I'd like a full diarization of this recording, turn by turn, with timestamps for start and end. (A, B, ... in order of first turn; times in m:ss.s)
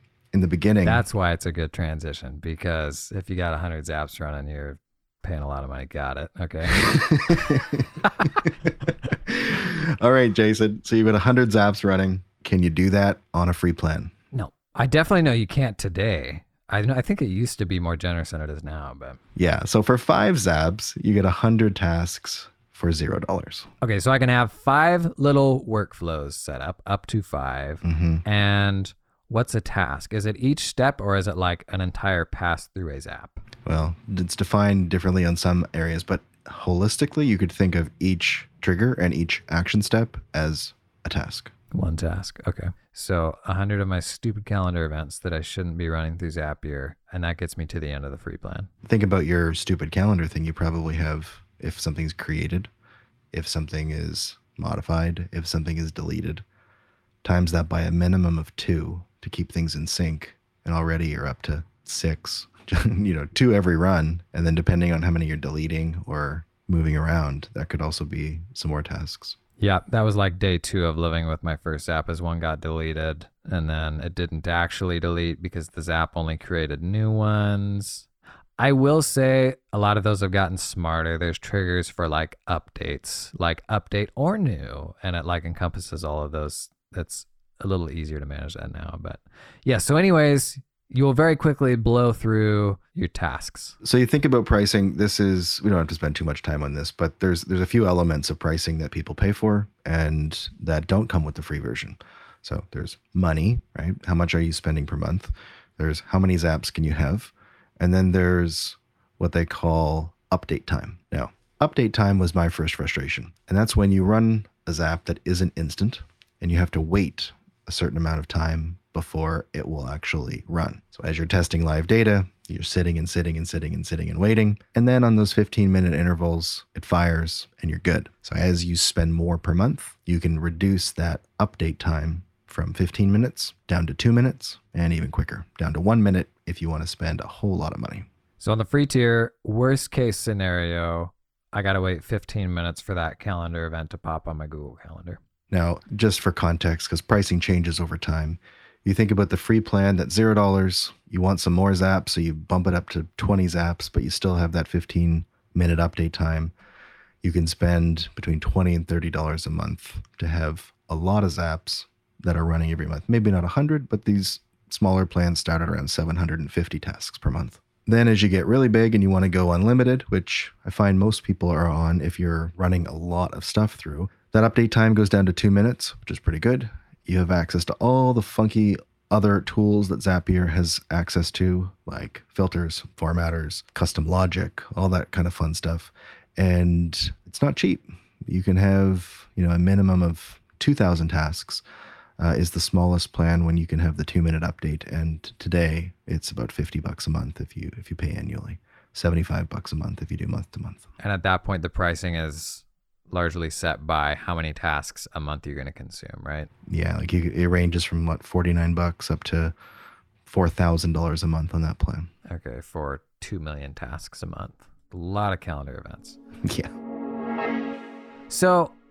0:00.3-0:01.0 A
0:00.8-0:07.4 B
0:06.8-0:14.1 A
0:14.3-0:19.2 B
0:19.4-0:23.7 A
0:23.8-0:33.4 B
0:27.8-0:28.2 A
0:33.6-0:41.5 A
0:41.7-0:48.7 B
0:48.8-0:52.7 A
0:53.3-0:56.4 A
0:57.2-1:09.4 A
1:09.6-1:18.1 B
1:18.6-1:33.8 B
1:33.8-2:18.1 A
2:18.4-2:25.2 B
2:25.5-2:36.5 A
2:37.2-3:11.6 A
3:12.2-3:20.9 A
3:21.0-3:26.5 B
3:26.7-3:29.6 A
3:30.3-3:32.1 A
3:32.3-3:36.2 B
3:36.4-3:36.7 A
3:38.3-3:38.8 B